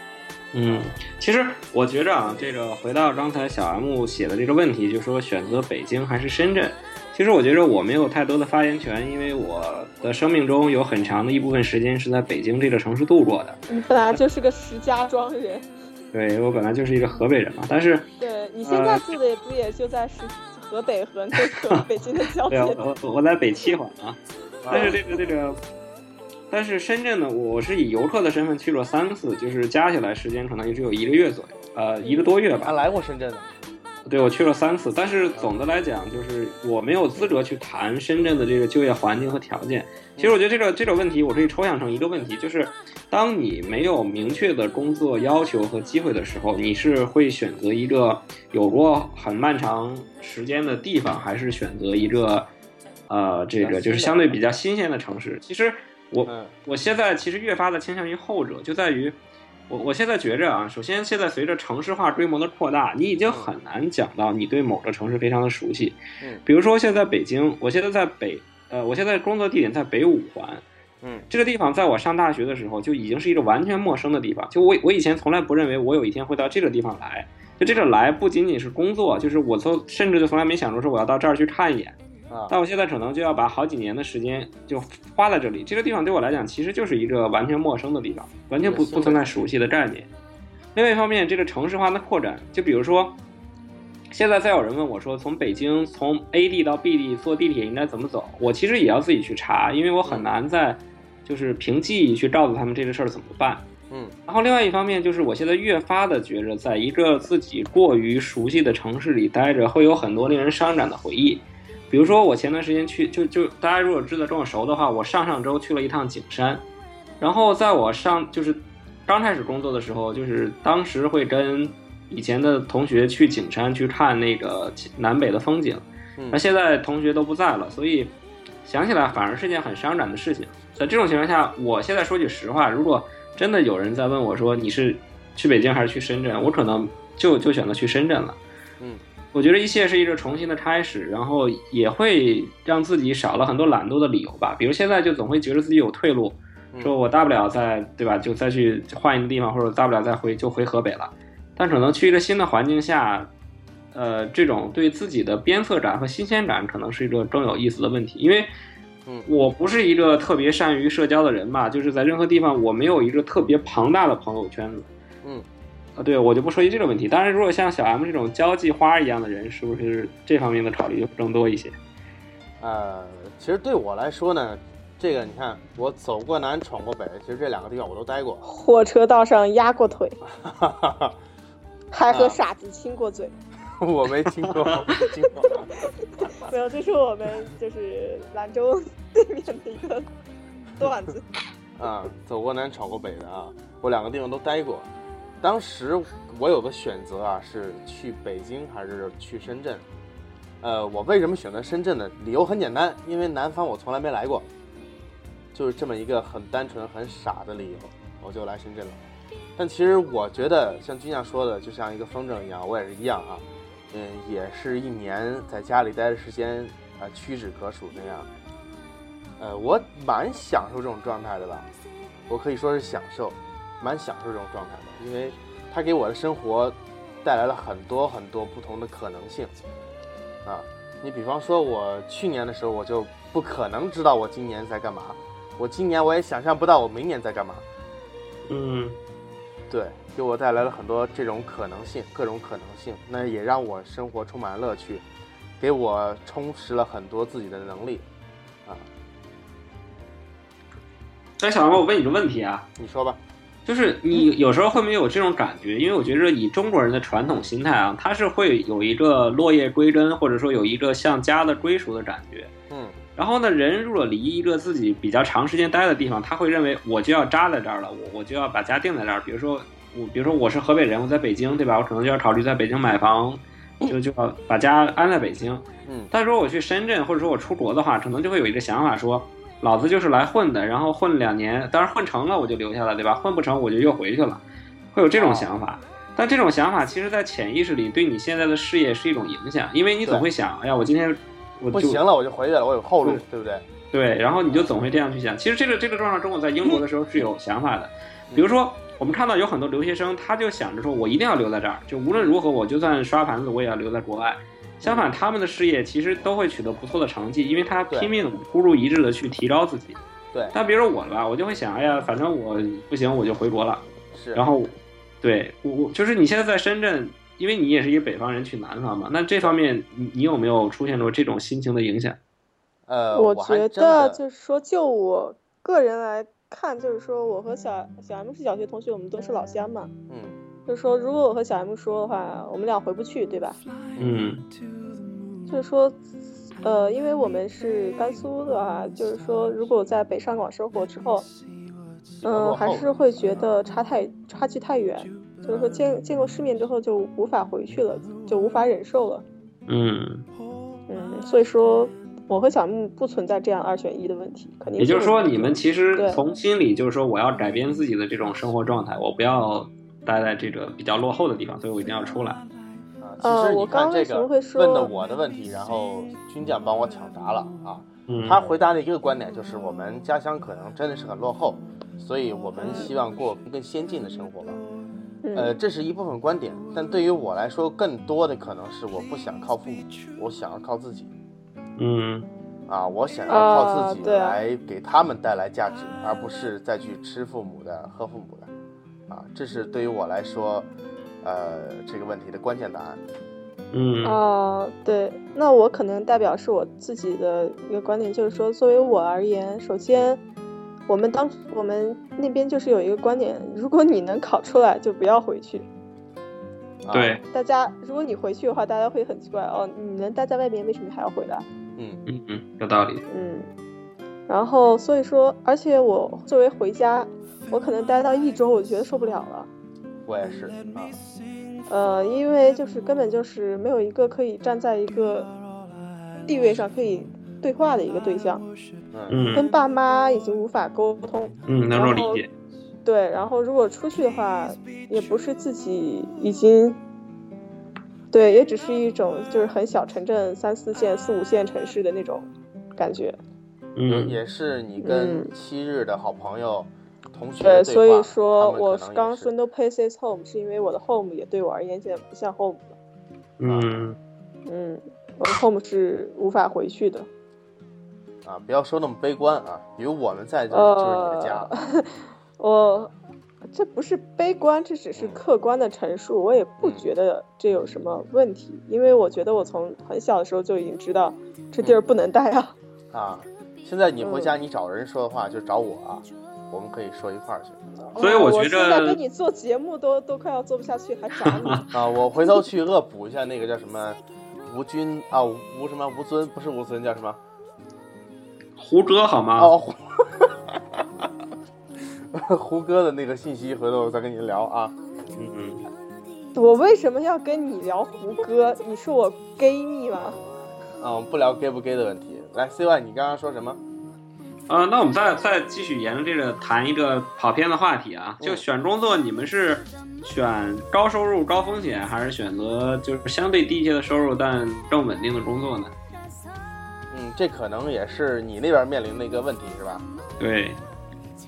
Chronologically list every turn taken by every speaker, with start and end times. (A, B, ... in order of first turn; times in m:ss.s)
0:00.5-0:13.6 A
0:00.6-0:01.0 B
0:13.7-0:15.7 C
0:16.1-0:18.1 A
0:18.2-0:22.8 C
0:18.6-0:19.1 A
0:22.5-0:25.6 A
0:24.6-0:25.0 B
0:26.5-0:32.8 A
0:32.6-0:33.5 B
0:34.0-0:52.5 A
0:53.1-0:59.2 A
0:53.6-0:54.4 B
0:56.2-0:56.5 B
0:59.7-1:10.6 A
1:11.3-1:22.0 A
1:22.3-1:22.6 B
1:22.5-1:30.1 A
1:28.6-1:29.4 B
1:30.7-1:33.2 A
1:34.1-1:43.6 A
1:43.9-1:44.2 B
1:44.3-1:56.6 A
1:57.2-2:18.4 A
2:06.2-2:06.4 B
2:19.3-2:33.3 A
2:33.9-2:38.5 A
2:39.2-2:44.9 A
2:46.0-2:51.8 A
2:52.6-2:58.4 B
2:58.4-3:00.2 C
3:00.2-3:01.2 B
3:01.9-3:03.3 C
3:02.1-3:02.4 B
3:03.8-3:05.7 B
3:04.4-3:05.0 A
3:06.2-3:10.1 C
3:10.8-3:11.3 C
3:11.8-3:14.9 B
3:15.4-3:19.8 B
3:20.6-3:24.5 B
3:25.5-3:29.0 B
3:29.6-3:38.3 B
3:39.4-3:41.7 B
3:42.3-3:49.5 B
3:50.4-3:57.6 B
3:58.5-3:59.0 A
3:59.7-4:05.0 B
4:05.6-4:08.0 B
4:11.4-4:12.7 A
4:12.8-4:13.2 B
4:13.6-4:22.5 A
4:22.7-4:23.0 B
4:23.2-4:52.0 A
4:35.8-4:36.1 B
4:45.1-4:45.5 B
4:51.7-4:53.6 B
4:53.9-5:10.0 A
4:54.5-4:54.8 B
5:02.1-5:02.4 B
5:04.8-5:05.1 B
5:10.5-5:22.2 A
5:14.1-5:14.4 B
5:22.9-5:24.2 B
5:23.1-5:29.9 C
5:30.1-5:30.4 B
5:30.7-5:33.6 C
5:34.0-5:34.2 B
5:34.0-5:34.4 A
5:35.5-5:36.0 C
5:36.6-5:41.3 C
5:42.2-5:43.5 B
5:42.2-5:49.2 C
5:45.5-5:45.8 B
5:49.7-5:50.2 A
5:50.9-5:56.2 C
5:54.8-6:02.4 A
6:03.0-6:14.6 B
6:03.2-6:04.9 C
6:08.1-6:08.4 A
6:12.6-6:12.9 C
6:15.2-6:15.5 C
6:15.3-6:21.1 B
6:21.8-6:22.3 A
6:22.7-6:28.5 B
6:23.3-6:24.4 C
6:29.1-6:30.7 B
6:31.2-6:33.0 B
6:33.7-6:34.2 A
6:34.0-6:40.2 C
6:40.9-6:45.7 C
6:46.8-6:47.2 B
6:46.9-6:47.2 A
6:47.3-6:51.4 C
6:51.8-6:52.0 B
6:52.1-6:53.0 A
6:53.1-6:53.5 C
6:54.3-6:59.5 C
7:00.0-7:01.0 B
7:01.7-7:05.3 C
7:06.2-7:08.4 C
7:08.9-7:09.3 B
7:09.1-7:09.5 A
7:09.3-7:12.2 C
7:11.4-7:12.3 A
7:12.8-7:16.8 C
7:18.1-7:23.2 C
7:23.8-7:24.2 A
7:23.8-7:29.3 B
7:24.8-7:25.3 C
7:27.4-7:32.7 C
7:33.4-7:34.0 A
7:33.4-7:33.8 B
7:34.4-7:37.1 C
7:38.2-7:41.5 B
7:40.5-7:42.9 C
7:43.5-7:52.6 C
7:45.0-7:45.2 B
7:46.6-7:46.9 B
7:52.9-7:57.6 B
7:54.0-7:54.3 C
7:57.8-8:01.7 C
7:58.0-7:59.0 A
8:01.2-8:01.6 A
8:01.7-8:07.2 B
8:08.6-8:09.5 A
8:09.4-8:11.1 B
8:12.1-8:14.7 B
8:15.1-8:15.6 A
8:16.3-8:20.2 C
8:20.8-8:23.6 B
8:24.5-8:35.7 A
8:36.9-8:39.8 B
8:40.2-8:40.6 A